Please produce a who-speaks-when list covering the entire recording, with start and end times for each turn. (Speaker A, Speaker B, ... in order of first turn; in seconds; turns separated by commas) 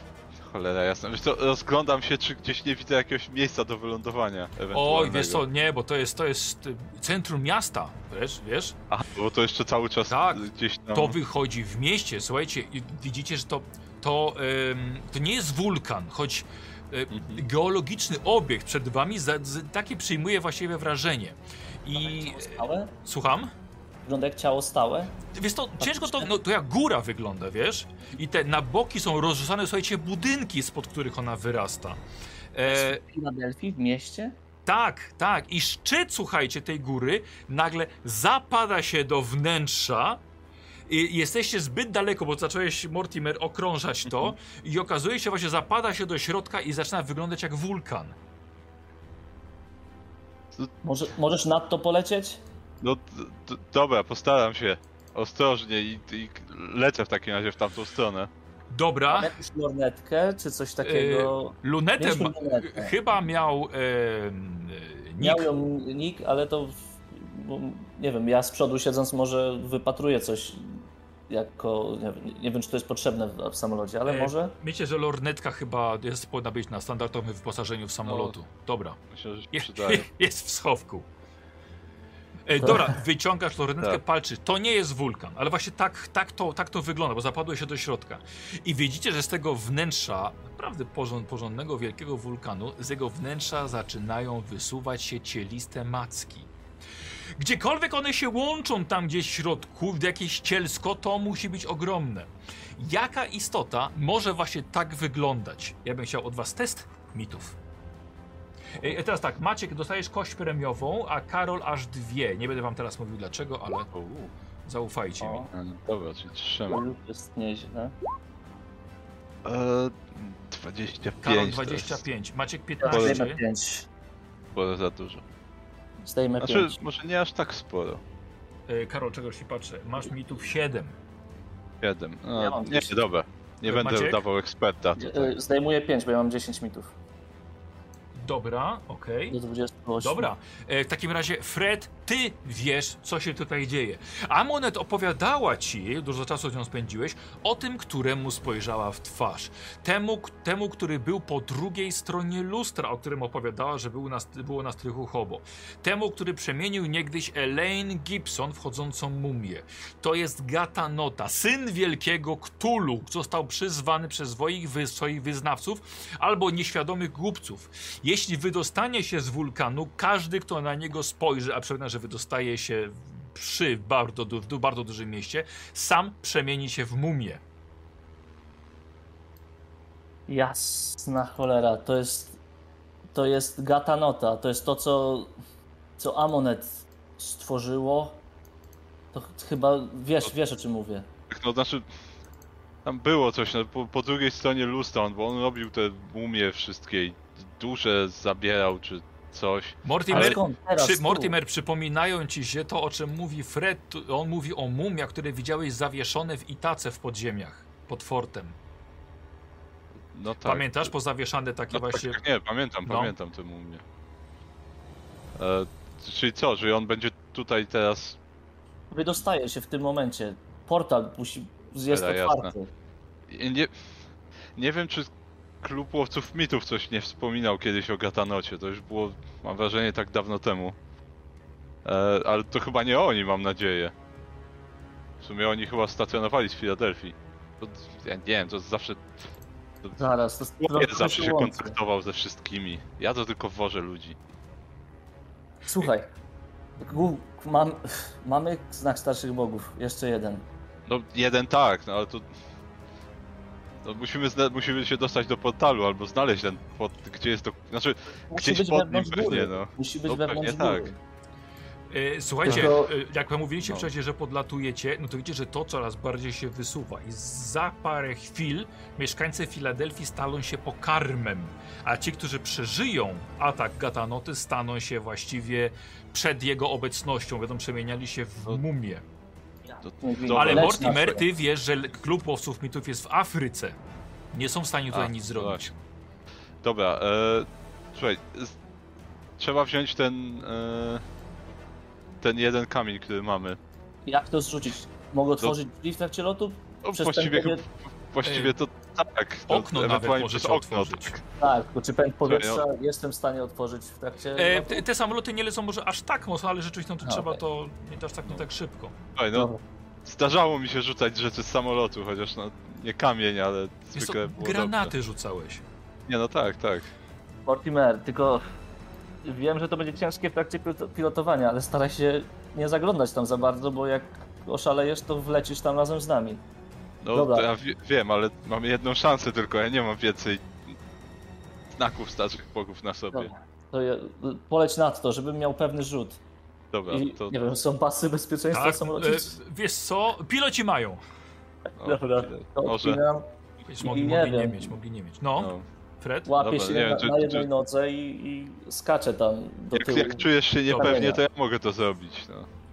Speaker A: 0.4-5.4, Speaker B: 4.7-8.8, Speaker A: 8.9-11.2, Speaker B: 10.1-23.5, Speaker A: 17.1-17.4, Speaker C: 21.9-22.9, Speaker C: 24.1-25.1, Speaker B: 25.3-32.0, Speaker C: 25.8-26.3, Speaker B: 32.5-33.0, Speaker C: 32.7-34.4, Speaker B: 34.7-40.2, Speaker B: 40.9-48.2, Speaker C: 50.8-52.4, Speaker A: 52.8-58.3, Speaker B: 58.7-59.3, Speaker C: 59.1-62.9, Speaker B: 60.8-65.5, Speaker C: 65.2-74.5, Speaker B: 74.1-79.0, Speaker A: 78.0-78.3, Speaker A: 79.1-80.1, Speaker B: 79.5-81.1, Speaker B: 82.5-96.5, Speaker B: 97.4-107.5, Speaker B: 108.8-113.9, Speaker A: 113.9-114.3, Speaker B: 114.7-115.5, Speaker C: 115.2-115.5, Speaker A: 115.5-116.8, Speaker C: 116.7-117.9, Speaker A: 119.5-122.0, Speaker B: 121.2-123.4, Speaker C: 122.8-123.9, Speaker A: 122.9-123.2, Speaker A: 124.5-125.2, Speaker C: 126.0-126.8, Speaker A: 126.4-128.0, Speaker B: 128.7-130.9, Speaker A: 131.8-135.3, Speaker C: 132.3-133.0, Speaker B: 133.6-134.2, Speaker C: 135.0-136.9, Speaker B: 138.2-139.4, Speaker C: 139.3-140.3, Speaker B: 140.0-177.4, Speaker C: 180.3-182.4, Speaker C: 183.1-185.3, Speaker C: 186.0-188.2, Speaker C: 189.1-191.1, Speaker A: 191.3-191.9, Speaker A: 192.8-200.4, Speaker B: 199.8-208.6, Speaker C: 200.1-201.3, Speaker A: 210.1-210.9, Speaker B: 210.4-212.2, Speaker A: 211.7-213.8, Speaker B: 212.8-213.1, Speaker A: 215.4-218.2, Speaker C: 218.9-222.7, Speaker A: 221.9-222.5, Speaker A: 223.3-223.9, Speaker A: 224.6-225.1, Speaker A: 225.6-230.8, Speaker A: 231.8-233.9, Speaker A: 235.2-239.1, Speaker C: 240.0-241.8, Speaker A: 240.6-244.2, Speaker C: 245.7-246.1, Speaker C: 246.8-250.4, Speaker A: 250.9-252.3, Speaker A: 253.8-260.9, Speaker C: 258.3-260.9, Speaker B: 261.9-279.1, Speaker C: 262.4-262.9, Speaker A: 262.5-262.7, Speaker C: 279.7-281.2, Speaker A: 279.8-281.0, Speaker B: 280.3-283.8, Speaker B: 284.3-285.7, Speaker A: 284.9-285.7, Speaker A: 286.6-288.6, Speaker A: 289.4-291.0, Speaker A: 292.2-293.6, Speaker C: 294.1-297.6, Speaker A: 296.8-301.2, Speaker B: 298.2-298.6, Speaker B: 299.5-301.2, Speaker C: 301.4-304.8, Speaker A: 302.2-302.6, Speaker B: 304.3-308.9, Speaker C: 307.0-307.4, Speaker A: 309.2-309.5, Speaker C: 309.3-309.6, Speaker A: 310.1-314.9, Speaker B: 313.9-315.6, Speaker A: 316.1-316.9, Speaker C: 317.5-318.4, Speaker C: 319.2-326.4, Speaker A: 327.0-330.5, Speaker C: 327.1-327.5, Speaker A: 331.8-333.3, Speaker C: 333.1-336.2, Speaker A: 336.7-337.4, Speaker C: 336.9-339.4, Speaker B: 338.5-341.0, Speaker A: 341.8-343.0, Speaker C: 341.8-343.3, Speaker B: 343.7-346.3, Speaker C: 343.8-344.7, Speaker A: 345.4-345.6, Speaker C: 346.3-351.2, Speaker A: 346.4-347.5, Speaker A: 349.7-352.5, Speaker B: 350.7-351.0